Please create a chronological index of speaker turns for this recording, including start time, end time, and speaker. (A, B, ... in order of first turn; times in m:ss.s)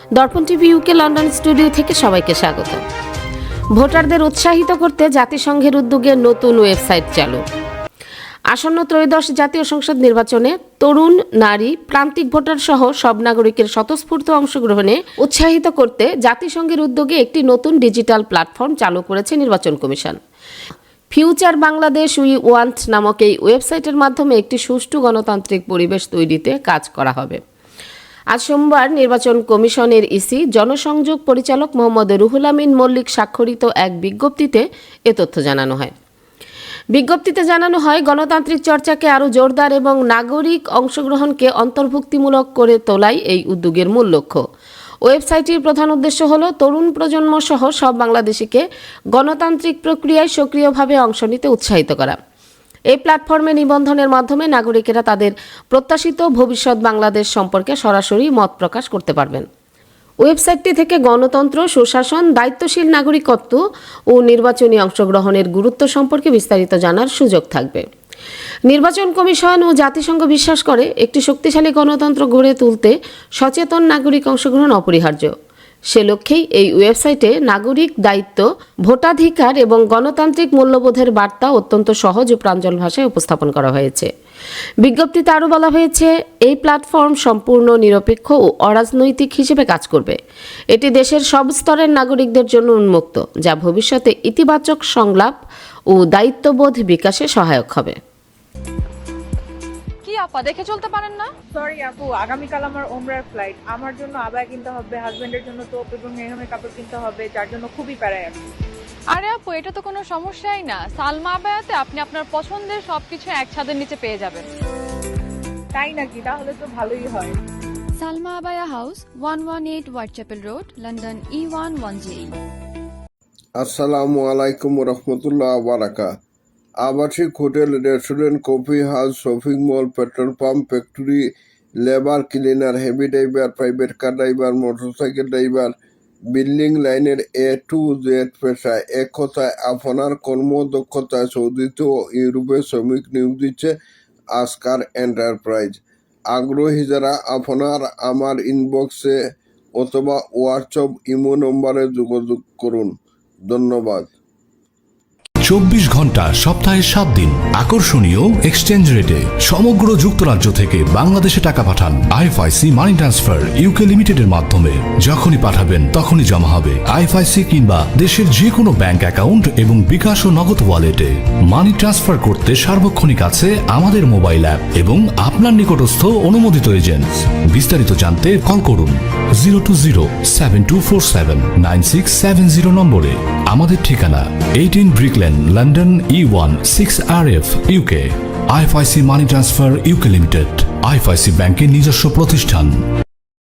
0:00.2-0:02.8 A
0:03.8-0:07.4 A
0:08.5-0:20.2 A
0:21.1-0:27.4 A
0:28.3-0:35.9 A
0:36.9-0:44.4 A
0:45.0-0:52.2 A
0:52.9-0:59.5 A
1:00.2-1:03.6 A
1:04.1-1:07.9 A
1:08.7-1:15.3 A
1:15.9-1:24.1 A
1:24.8-1:30.2 A
1:30.7-1:35.4 A
1:35.9-1:38.0 A
1:40.0-1:41.3 B
1:41.5-1:48.4 C
1:49.1-1:54.4 B
1:55.7-1:57.3 C
1:58.0-2:02.3 D
2:03.6-2:06.1 E
2:06.8-2:15.8 E
2:16.3-2:23.7 E
2:24.3-2:29.2 E
2:29.8-2:32.9 E
2:33.5-2:34.1 E
2:35.4-3:12.7 F